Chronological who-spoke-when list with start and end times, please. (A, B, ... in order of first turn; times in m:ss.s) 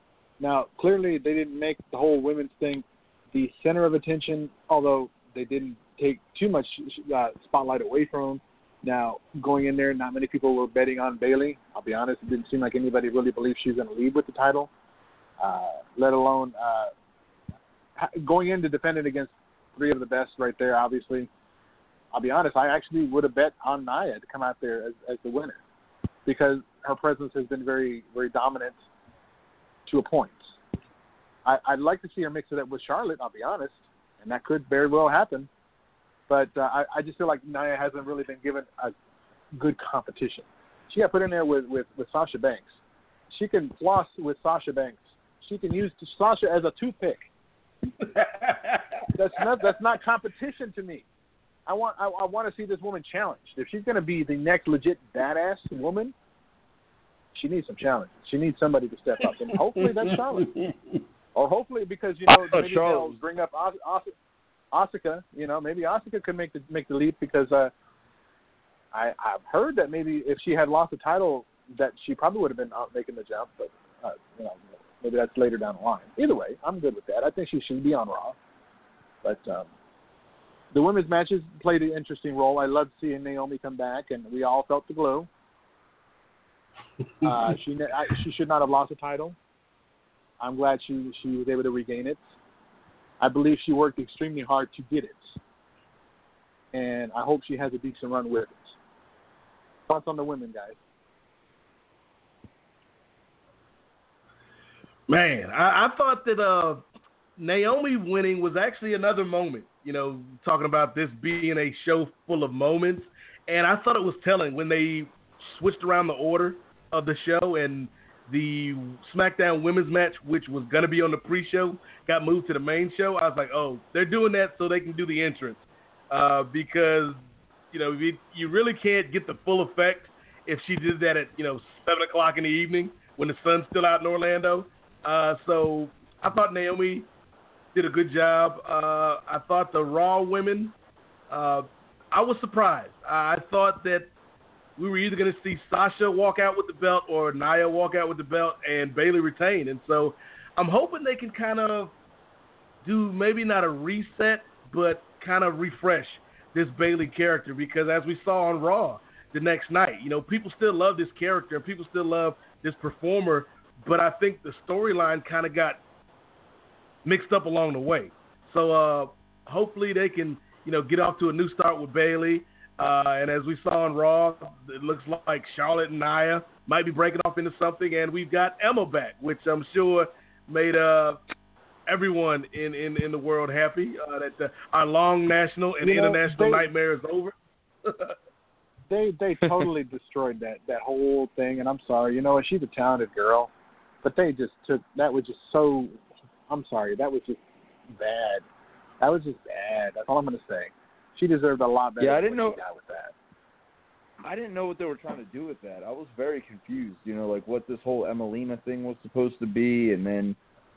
0:00.4-0:14.7 A
0:15.4-0:16.9 A
0:18.0-0:21.3 A
0:22.1-0:25.6 A
0:26.3-0:28.8 A
0:29.9-0:30.6 A
0:31.4-0:35.5 A
0:36.3-0:38.9 A
0:39.6-0:42.8 A
0:43.3-0:47.3 A
0:48.0-0:49.0 B
0:49.2-0:51.0 A
0:51.7-0:56.1 A
0:57.3-1:00.5 A
1:01.4-1:04.1 A
1:02.5-1:03.2 C
1:04.7-1:07.7 A
1:08.9-1:18.4 A
1:19.2-1:19.7 A
1:20.7-1:25.3 A
1:27.2-1:29.4 A
1:30.4-1:32.3 A
1:33.2-1:35.4 A
1:36.7-1:38.8 A
1:39.9-1:40.8 A
1:45.1-1:46.8 B
1:47.4-2:07.2 B
2:07.7-2:17.1 B
2:17.8-2:20.8 B
2:21.3-2:24.1 B
2:24.8-2:31.9 B
2:32.8-2:45.8 B
2:47.0-3:01.2 B
3:01.9-3:07.3 B
3:05.8-3:06.7 A
3:07.8-3:08.2 B
3:08.9-3:13.5 A
3:14.0-3:16.0 A
3:16.5-3:18.4 A
3:19.0-3:23.1 A
3:22.0-3:22.6 C
3:24.2-3:30.4 C